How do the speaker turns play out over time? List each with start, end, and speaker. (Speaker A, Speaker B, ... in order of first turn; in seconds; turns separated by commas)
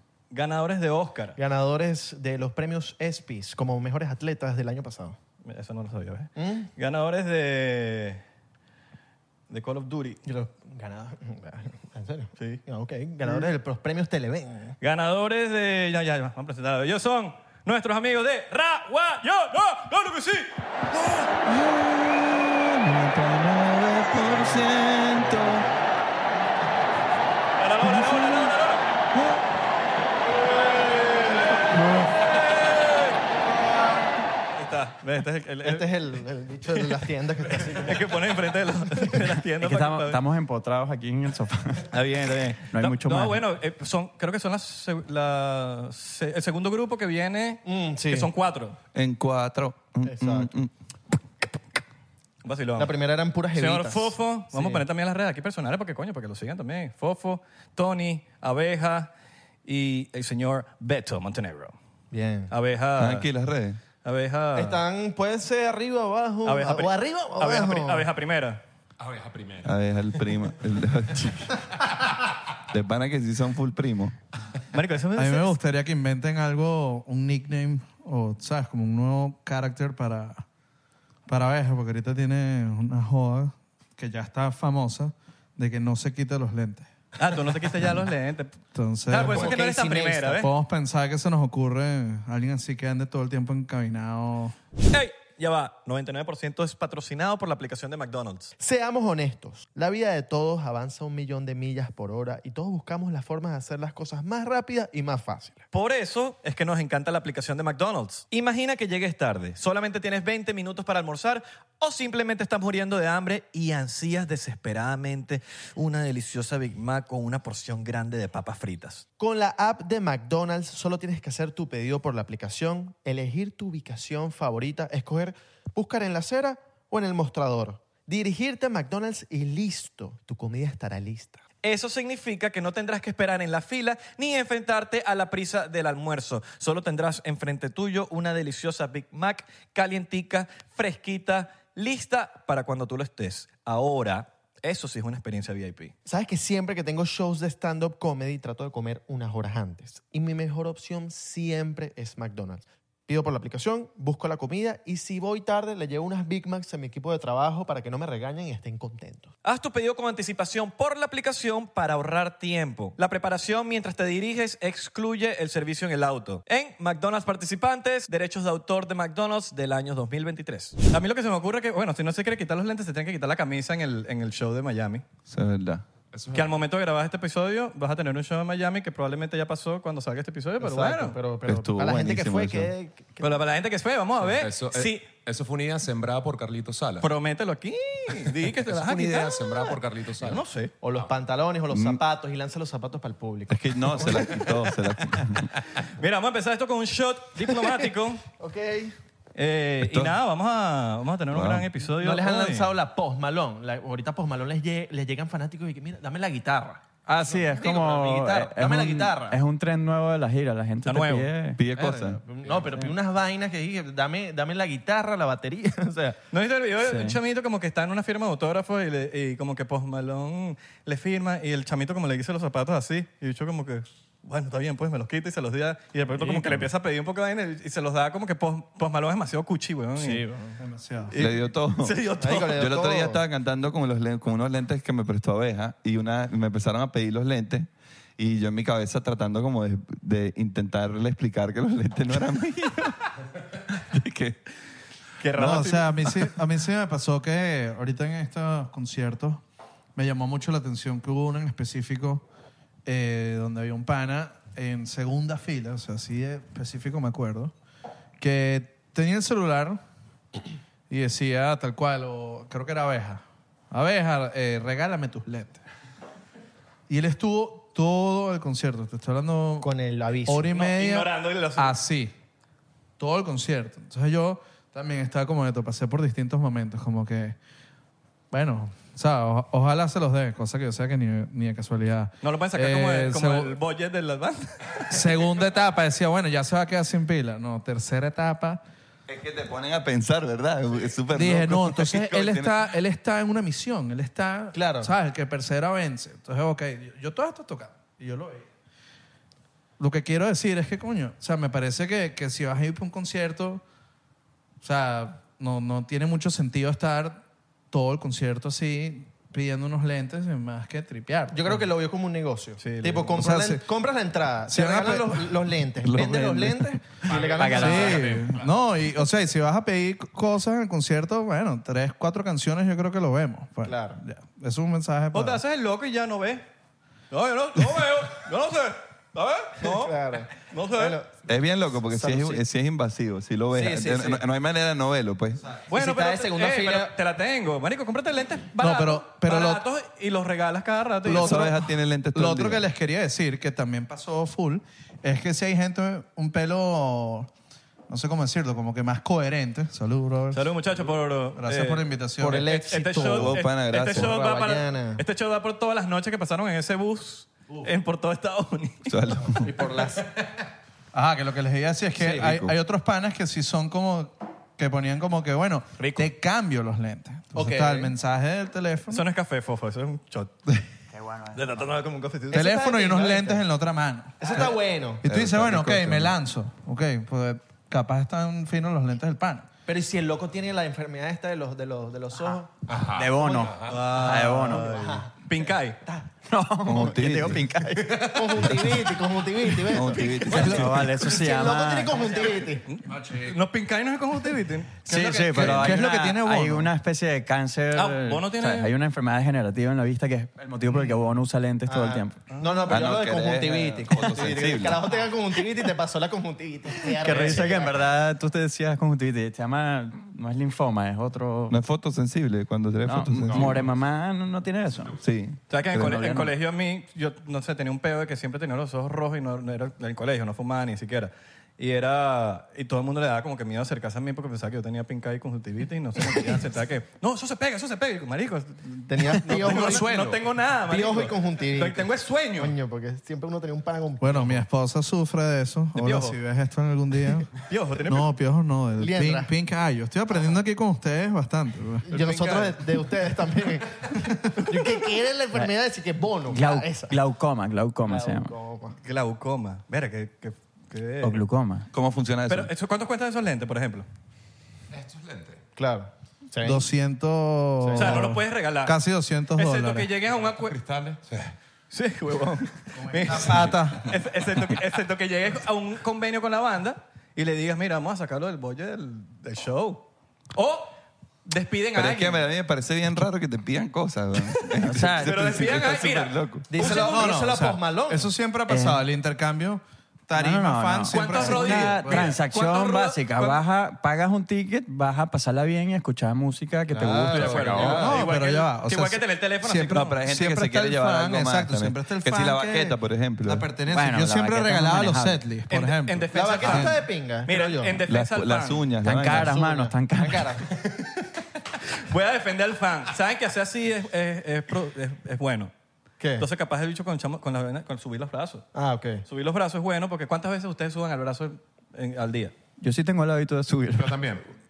Speaker A: 0.3-1.4, Speaker B: 1.4-5.2, Speaker A: 5.5-8.2, Speaker B: 6.4-6.7, Speaker A: 9.5-10.2, Speaker B: 10.2-14.8, Speaker A: 14.8-21.2, Speaker C: 21.2-25.7, Speaker B: 24.3-25.8, Speaker A: 27.6-28.9, Speaker C: 27.9-28.5, Speaker C: 29.1-29.4, Speaker A: 30.4-33.2, Speaker C: 31.7-32.1, Speaker A: 34.6-35.9, Speaker B: 35.6-38.1, Speaker A: 36.7-37.0, Speaker A: 37.5-40.2, Speaker D: 39.5-42.0, Speaker A: 41.9-48.8, Speaker D: 42.7-43.4, Speaker B: 47.7-48.3, Speaker C: 49.0-50.7, Speaker B: 50.0-50.5, Speaker A: 52.4-52.9, Speaker B: 52.8-54.8, Speaker A: 53.5-59.1, Speaker A: 59.6-61.8, Speaker B: 62.1-62.5, Speaker A: 62.5-63.3, Speaker C: 63.0-63.8, Speaker A: 64.0-64.8, Speaker B: 64.6-68.1, Speaker A: 66.4-68.6, Speaker E: 69.0-69.8, Speaker C: 69.7-71.5, Speaker C: 72.7-74.2, Speaker A: 74.7-75.5, Speaker F: 75.2-80.4, Speaker F: 81.3-86.9, Speaker A: 87.2-90.5, Speaker F: 88.7-89.5, Speaker B: 89.3-90.5, Speaker F: 90.3-94.5, Speaker A: 94.9-98.5, Speaker B: 98.6-105.7, Speaker A: 105.7-119.0, Speaker B: 119.2-131.4, Speaker A: 131.6-145.9, Speaker B: 146.1-159.3, Speaker A: 159.4-175.0, Speaker C: 175.3-175.9, Speaker E: 176.1-176.6, Speaker A: 176.3-181.2, Speaker B: 180.6-183.4, Speaker C: 181.5-182.7, Speaker A: 183.2-185.1, Speaker E: 184.2-187.1, Speaker A: 187.0-190.7, Speaker E: 188.7-190.4, Speaker B: 190.8-194.5, Speaker C: 191.7-192.0, Speaker C: 193.5-195.5, Speaker A: 195.8-198.2, Speaker B: 198.4-198.9, Speaker A: 199.3-202.8, Speaker C: 199.8-200.2, Speaker C: 201.3-201.7, Speaker B: 201.9-209.4, Speaker D: 207.1-211.6, Speaker A: 210.8-211.3, Speaker C: 211.6-212.2, Speaker B: 211.9-216.2, Speaker A: 216.3-230.5, Speaker D: 216.8-217.2, Speaker F: 230.1-231.2, Speaker A: 231.1-232.6, Speaker C: 231.1-232.0, Speaker B: 232.2-233.2, Speaker C: 232.5-243.1, Speaker C: 243.7-244.4, Speaker A: 245.2-246.3, Speaker F: 245.3-249.4, Speaker F: 250.0-252.2, Speaker F: 252.9-257.5, Speaker F: 258.2-259.8, Speaker F: 260.9-265.6, Speaker F: 266.9-269.7, Speaker B: 269.6-270.5, Speaker F: 270.3-272.1, Speaker A: 270.5-271.8, Speaker F: 273.0-277.4, Speaker F: 278.3-283.6, Speaker A: 282.2-285.2, Speaker F: 284.9-288.6, Speaker C: 289.1-292.6, Speaker F: 291.1-298.5, Speaker B: 294.5-294.9, Speaker F: 299.8-303.6, Speaker F: 304.6-311.6, Speaker B: 311.3-318.2, Speaker A: 312.6-313.1, Speaker F: 313.1-313.6, Speaker F: 314.5-315.3, Speaker C: 315.9-316.5, Speaker E: 317.0-318.5, Speaker D: 317.4-318.0, Speaker F: 317.5-325.4, Speaker B: 323.6-324.0, Speaker A: 325.1-326.4, Speaker A: 327.1-331.0, Speaker B: 329.6-331.2, Speaker C: 331.3-335.4, Speaker B: 331.9-332.4, Speaker B: 333.5-334.2, Speaker B: 335.6-336.9, Speaker A: 335.7-341.5, Speaker F: 338.6-339.6, Speaker F: 341.0-347.3, Speaker C: 341.1-342.6, Speaker F: 347.9-350.5, Speaker A: 350.3-358.9, Speaker F: 351.4-352.5, Speaker B: 352.2-355.0, Speaker C: 353.1-354.1, Speaker C: 358.9-359.5, Speaker B: 359.4-360.1, Speaker F: 360.9-369.0, Speaker C: 362.0-362.6, Speaker A: 365.8-366.1, Speaker B: 367.3-367.9, Speaker A: 368.9-370.3, Speaker D: 370.9-371.7, Speaker A: 371.4-372.3, Speaker B: 371.5-373.4, Speaker F: 372.3-374.5, Speaker B: 374.2-375.1, Speaker F: 375.0-379.5, Speaker C: 375.1-376.1, Speaker B: 379.7-382.6, Speaker E: 382.7-383.9, Speaker D: 382.9-384.7, Speaker A: 383.7-385.8, Speaker B: 384.1-386.1, Speaker D: 386.3-388.6, Speaker C: 386.6-387.5, Speaker B: 388.0-392.7, Speaker C: 389.7-390.9, Speaker D: 390.3-392.2, Speaker A: 392.7-394.8, Speaker F: 392.9-393.4, Speaker D: 394.9-402.2, Speaker F: 394.9-396.7, Speaker B: 395.0-395.5, Speaker A: 397.7-398.7, Speaker B: 401.7-407.8, Speaker A: 402.4-402.7, Speaker C: 402.7-404.8, Speaker D: 406.9-411.6, Speaker A: 407.1-407.4, Speaker C: 411.5-413.6, Speaker D: 412.8-415.0, Speaker E: 413.2-413.8, Speaker C: 415.0-416.0, Speaker A: 415.5-432.5, Speaker D: 415.8-416.3, Speaker B: 428.9-430.1, Speaker B: 430.7-434.4, Speaker F: 434.0-437.3, Speaker A: 435.8-436.2, Speaker A: 437.5-438.1, Speaker F: 437.9-441.9, Speaker B: 438.8-439.3, Speaker B: 441.9-447.0, Speaker A: 441.9-442.6, Speaker F: 444.1-444.4, Speaker D: 446.3-448.3, Speaker B: 447.9-448.8, Speaker A: 448.8-451.2, Speaker D: 451.0-451.7, Speaker C: 451.7-452.5, Speaker A: 452.3-453.9, Speaker E: 454.7-455.4, Speaker B: 455.6-456.7, Speaker F: 456.4-459.9, Speaker B: 457.6-458.1, Speaker A: 457.8-458.8, Speaker A: 459.4-460.6, Speaker E: 460.0-461.3, Speaker A: 461.7-472.2, Speaker F: 462.9-463.9, Speaker C: 471.7-476.5, Speaker A: 474.4-477.1, Speaker D: 474.6-475.4, Speaker B: 476.5-478.1, Speaker F: 476.6-482.2, Speaker D: 478.5-478.8, Speaker D: 480.1-487.9, Speaker A: 480.9-483.4, Speaker B: 486.7-488.1, Speaker A: 487.0-490.0, Speaker F: 487.6-496.8, Speaker C: 489.7-493.5, Speaker D: 493.7-495.2, Speaker A: 495.5-498.7, Speaker B: 496.1-497.8, Speaker C: 497.9-499.3, Speaker D: 498.8-500.4, Speaker B: 499.1-500.5, Speaker A: 501.8-505.5, Speaker B: 506.0-506.3, Speaker A: 506.2-508.5, Speaker B: 508.6-509.0, Speaker A: 509.1-512.3, Speaker D: 512.6-514.1, Speaker E: 513.8-514.2